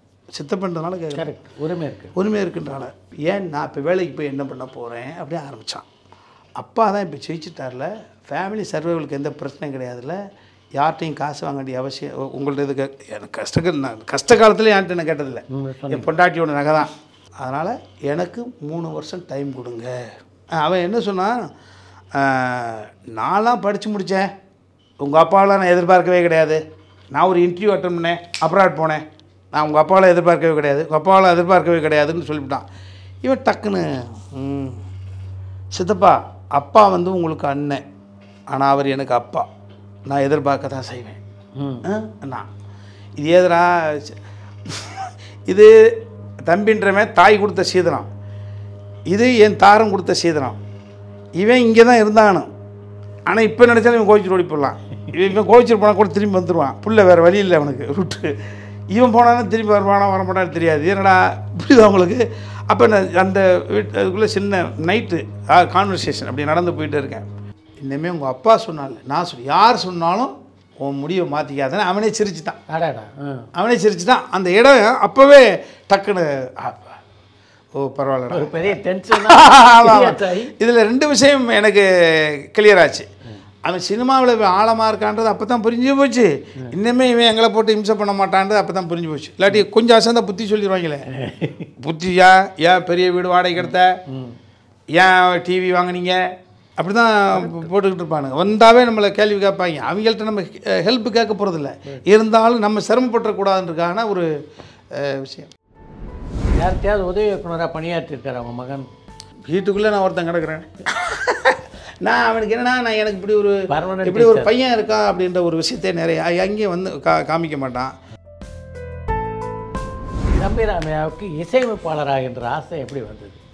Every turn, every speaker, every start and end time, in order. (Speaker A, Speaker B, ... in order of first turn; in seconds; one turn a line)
Speaker A: 0.3-1.3
Speaker B: 1.1-2.1
Speaker A: 2.2-5.8
Speaker A: 6.6-10.2
Speaker A: 10.8-16.9
Speaker B: 15.5-16.1
Speaker A: 17.4-20.1
Speaker A: 20.6-21.4
Speaker A: 22.1-24.3
Speaker A: 25.0-26.6
Speaker A: 27.1-32.6
Speaker A: 33.2-34.8
Speaker A: 35.7-37.8
Speaker A: 38.5-39.5
Speaker A: 40.1-41.2
Speaker B: 41.6-41.9
Speaker A: 41.9-42.5
Speaker A: 43.2-44.2
Speaker A: 44.7-45.7
Speaker A: 46.4-48.1
Speaker A: 49.1-50.6
Speaker A: 51.4-52.5
Speaker A: 53.3-67.3
Speaker A: 67.8-72.6
Speaker B: 72.7-73.5
Speaker A: 73.5-77.0
Speaker A: 77.8-83.1
Speaker B: 78.3-80.5
Speaker A: 83.7-91.1
Speaker B: 91.1-91.7
Speaker A: 91.8-94.0
Speaker B: 93.6-94.4
Speaker A: 94.9-96.3
Speaker A: 96.8-104.3
Speaker B: 97.4-97.7
Speaker A: 104.9-105.5
Speaker B: 106.5-108.9
Speaker A: 109.5-117.9
Speaker B: 113.7-114.5
Speaker B: 120.4-123.4